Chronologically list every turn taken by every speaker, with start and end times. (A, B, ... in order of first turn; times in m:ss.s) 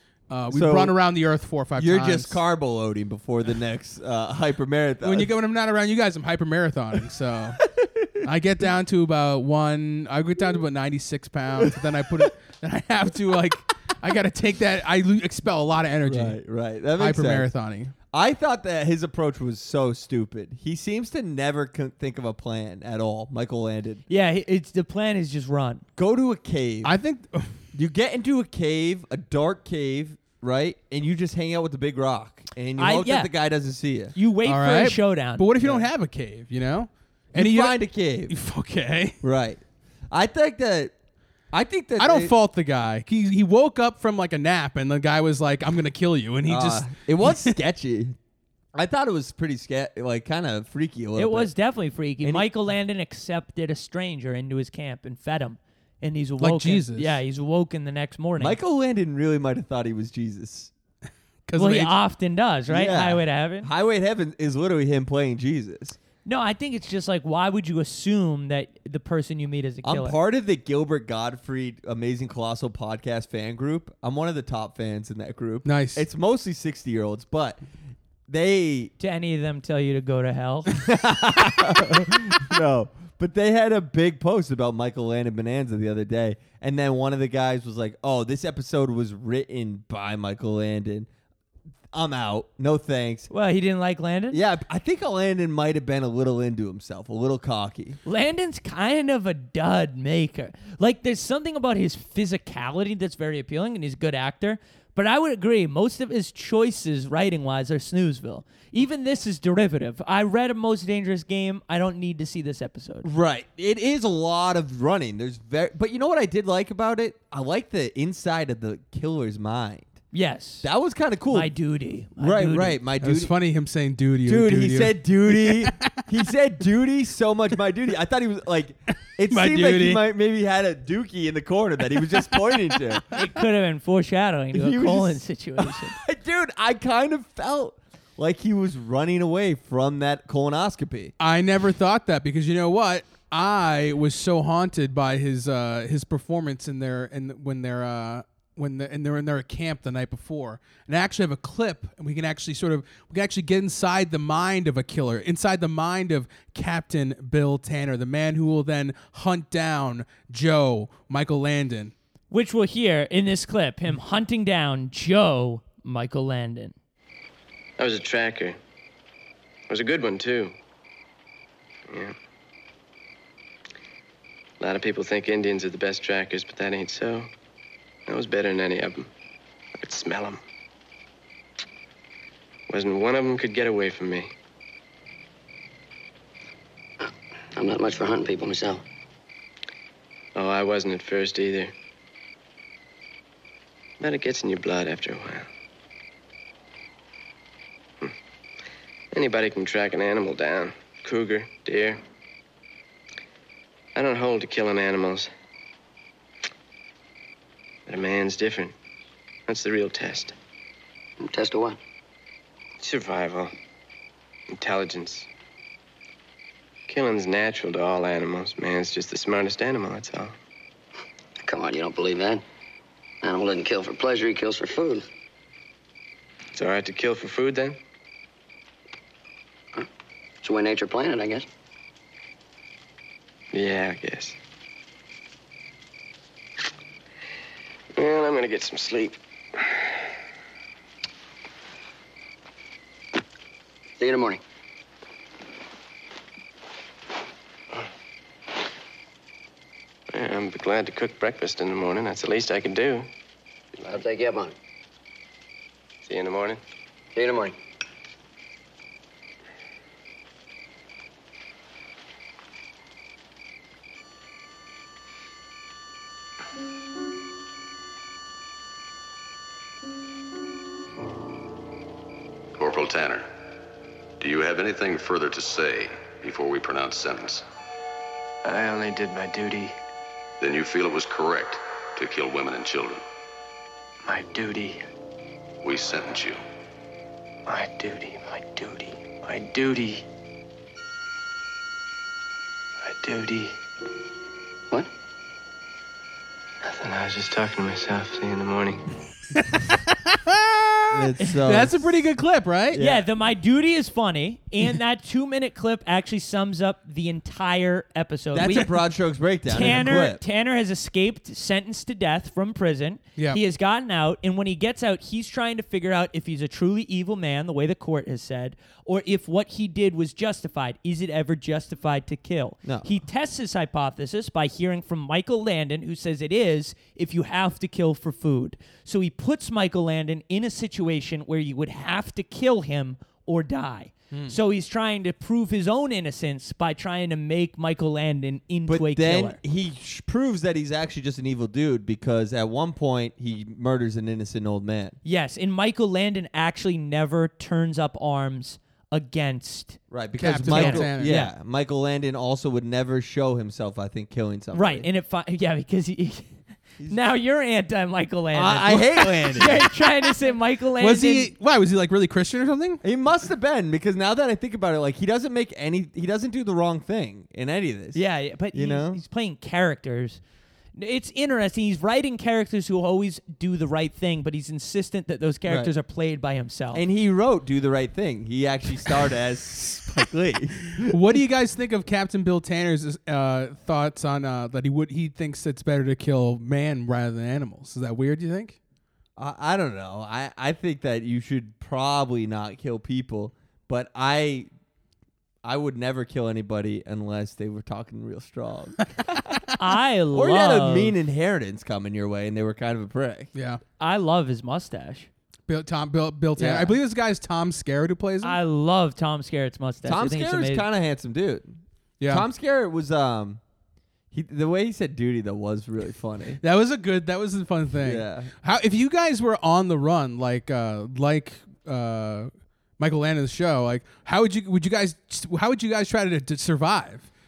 0:00.3-0:02.4 A
0:00.5-0:01.0 B
0:01.8-0:05.3 B
0:05.0-0:07.6 A
0:07.6-0:08.1 B
0:08.2-0:16.4 A
0:11.6-0:11.9 B
0:16.0-0:17.5 B
0:17.0-0:17.9 A
0:18.1-0:24.0 B
0:24.1-0:25.8 C
0:26.0-0:26.9 B
0:26.8-0:27.6 A
0:27.7-0:34.2 B
0:32.8-0:33.3 C
0:34.2-0:35.4 C
0:34.4-0:39.2 A
0:35.6-0:35.9 B
0:37.3-0:38.3 B
0:39.2-0:40.9 B
0:41.5-0:42.3 B
0:42.0-0:47.6 A
0:46.5-0:48.2 B
0:48.7-0:51.5 B
0:51.2-0:58.6 C
0:52.2-0:52.5 B
0:56.4-0:57.2 A
0:58.4-1:00.7 B
1:01.5-1:01.9 A
1:01.6-1:03.7 C
1:02.7-1:06.0 B
1:06.2-1:10.2 C
1:09.8-1:17.6 B
1:15.6-1:16.1 A
1:18.3-1:18.9 B
1:19.0-1:20.7 C
1:20.8-1:31.1 B
1:31.9-1:33.3 B
1:33.3-1:34.4 C
1:34.3-1:38.0 B
1:38.0-1:53.1 C
1:53.0-1:59.9 B
2:00.1-2:00.7 C
2:00.6-2:01.5 B
2:01.3-2:02.8 C
2:02.2-2:03.3 B
2:03.0-2:06.0 A
2:04.2-2:13.0 B
2:09.3-2:10.0 A
2:13.1-2:16.0 C
2:14.5-2:21.1 B
2:21.2-2:41.9 A
2:42.3-2:46.8 C
2:47.8-2:48.6 D
2:49.7-2:50.5 D
2:51.9-2:52.2 D
2:54.6-2:57.3 D
2:58.1-2:59.1 D
2:59.8-3:00.4 D
3:02.7-3:04.3 D
3:07.0-3:08.8 E
3:10.4-3:11.7 D
3:14.0-3:15.5 D
3:19.1-3:22.0 D
3:24.0-3:25.3 D
3:27.9-3:28.7 D
3:29.5-3:30.4 D
3:31.2-3:31.8 E
3:32.8-3:33.5 D
3:34.5-3:35.3 D
3:36.9-3:40.3 D
3:41.4-3:42.4 E
3:43.2-3:45.0 E
3:46.5-3:47.8 D
3:50.4-3:51.5 E
3:53.5-3:54.4 D
3:58.0-3:59.8 D
4:04.0-4:04.4 E
4:10.1-4:13.1 D
4:13.9-4:14.6 E
4:16.0-4:16.6 D
4:17.1-4:17.6 E
4:32.6-4:33.3 F
4:34.2-4:37.4 F
4:38.4-4:39.8 D
4:40.4-4:43.0 F
4:44.0-4:44.8 D
4:45.6-4:46.4 F
4:47.5-4:50.1 D
4:52.8-4:53.6 D
4:56.6-4:58.8 D
4:59.4-5:02.8 A
5:00.9-5:02.0 B
5:02.7-5:03.1 B
5:02.8-5:08.7 C
5:08.3-5:10.2 B
5:09.5-5:39.4 C
5:22.6-5:22.9 B
5:38.7-5:45.0 B
5:45.0-5:49.8 C
5:49.9-5:54.9 B
5:50.2-5:51.2 A
5:50.5-5:51.3 C
5:54.5-5:56.4 C
5:56.9-6:01.3 C
5:58.3-5:59.8 B
6:00.8-6:02.8 A
6:02.8-6:08.0 B
6:08.0-6:10.2 C
6:08.5-6:09.0 B
6:10.8-6:16.8 C
6:15.5-6:15.7 B
6:16.7-6:21.0 B
6:20.8-6:28.6 A
6:29.2-6:34.5 B
6:35.4-6:39.4 B
6:39.6-6:41.0 C
6:40.1-6:43.3 B
6:43.4-6:43.6 A
6:43.8-6:45.1 C
6:45.5-6:48.4 A
6:46.4-6:46.8 B
6:48.2-6:50.7 C
6:49.8-6:51.6 B
6:52.0-6:52.3 A
6:52.1-6:53.4 B
6:54.1-6:56.4 B
6:56.4-7:07.1 A
6:57.8-6:58.3 B